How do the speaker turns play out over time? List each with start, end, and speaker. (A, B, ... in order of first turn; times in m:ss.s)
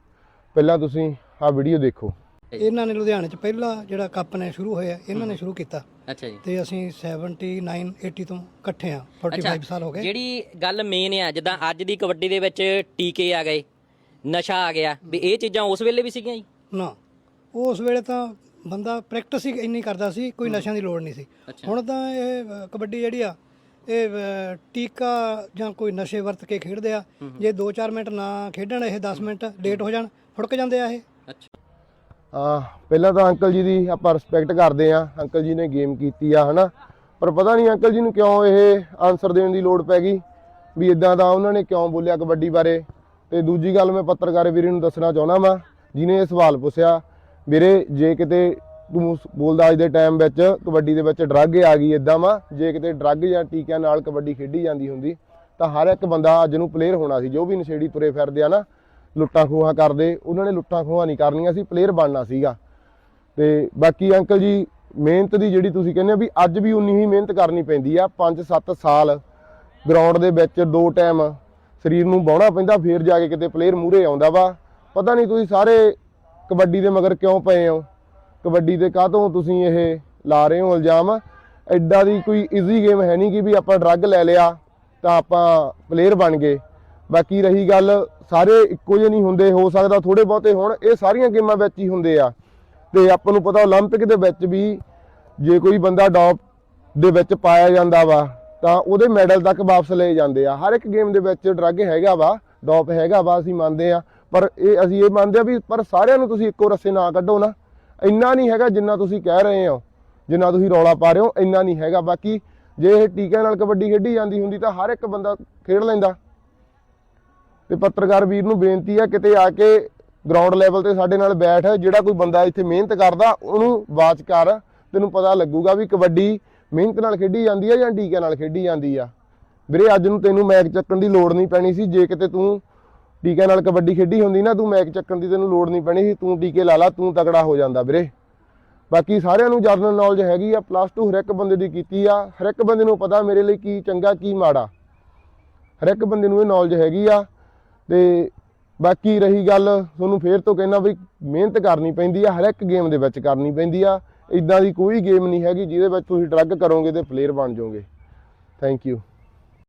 0:00.6-0:02.1 A
0:02.6-0:05.8 B
0:06.1-0:06.4 C
0:06.4-0:10.1 B
0:09.3-0:13.6 C
0:14.3-0:16.4 C
0:16.7-0:17.0 B
0:17.5-0:23.4 B
0:23.9-0:31.0 B
0:32.3-0:40.2 A
0:40.8-0:58.6 A
0:59.2-1:02.6 A
1:03.4-1:09.2 A
1:09.8-1:16.0 A
1:16.5-1:17.9 A
1:18.4-1:32.3 A
1:32.9-1:34.8 A
1:35.4-1:36.4 A
1:37.0-1:56.2 A
1:57.7-2:09.1 A
2:09.7-2:12.6 A
2:13.2-2:18.1 A
2:18.9-2:24.7 A
2:25.8-2:27.3 A
2:27.9-2:37.8 A
2:38.6-2:39.0 A